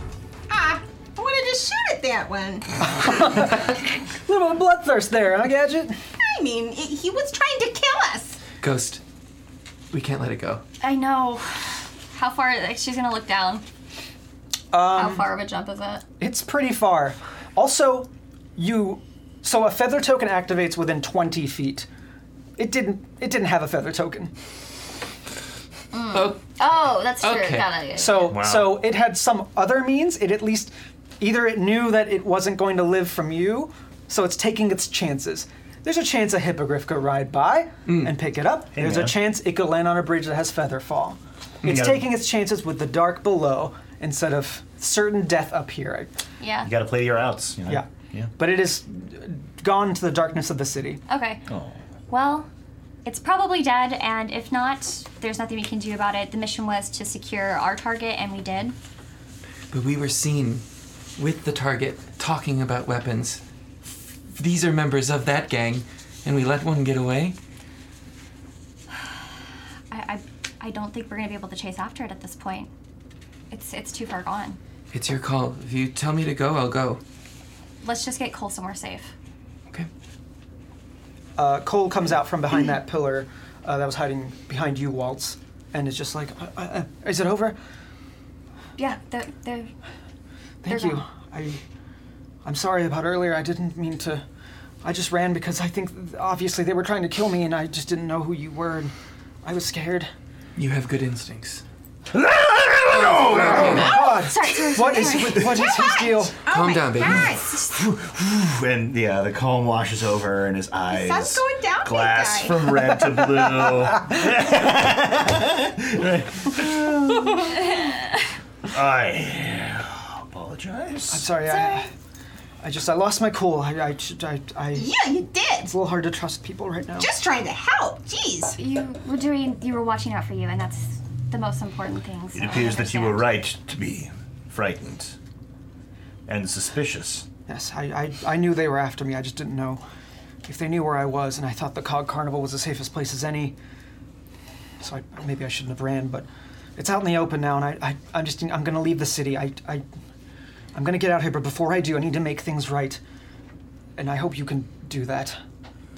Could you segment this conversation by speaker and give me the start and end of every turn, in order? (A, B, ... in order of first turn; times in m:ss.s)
0:00.5-0:02.7 A
0:02.8-0:06.0 B
0:06.2-0:08.4 A
0:08.6-0:09.0 C
0:09.9-0:10.6 C
0:10.8-0:13.6 D
0:14.7-0:15.3 B
0:14.9-0:16.0 D
0:16.2-0:21.9 B
0:22.6-0:24.3 B
0:25.9-0:28.3 D
0:26.1-0:27.7 C
0:27.9-0:46.1 B
0:28.3-0:28.8 E
0:38.7-0:39.1 E
0:41.6-0:42.0 E
0:46.4-0:46.7 D
0:46.6-0:48.3 E
0:47.7-0:51.0 B
0:51.1-0:51.4 D
0:51.5-0:51.8 E
0:52.1-0:52.5 D
0:53.0-0:58.7 D
0:59.7-1:00.6 C
1:01.2-1:03.4 C
1:04.4-1:07.4 C
1:09.9-1:12.7 D
1:13.5-1:14.6 D
1:14.9-1:17.0 C
1:17.8-1:19.1 D
1:21.4-1:27.6 B
1:28.8-1:29.7 D
1:30.6-1:31.6 B
1:30.7-1:31.0 D
1:32.4-1:34.2 B
1:34.8-1:38.9 B
1:39.4-1:40.1 B
1:40.6-1:41.6 C
1:42.1-1:44.0 E
1:42.8-1:44.0 C
1:43.6-1:46.4 B
1:43.7-1:45.8 D
1:45.7-1:47.7 A
1:46.5-1:47.4 C
1:47.7-1:57.8 E
1:50.9-1:52.8 A
1:53.6-1:54.1 B
1:58.7-2:01.3 E
2:01.1-2:01.9 B
2:01.5-2:01.8 D
2:02.6-2:04.9 B
2:04.7-2:05.7 A
2:05.6-2:07.1 B
2:07.0-2:08.6 A
2:08.6-2:13.3 D
2:12.3-2:15.1 E
2:16.3-2:17.2 E
2:17.5-2:19.8 B
2:20.4-2:23.6 B
2:24.8-2:29.8 B
2:30.7-2:33.0 B
2:34.0-2:35.4 B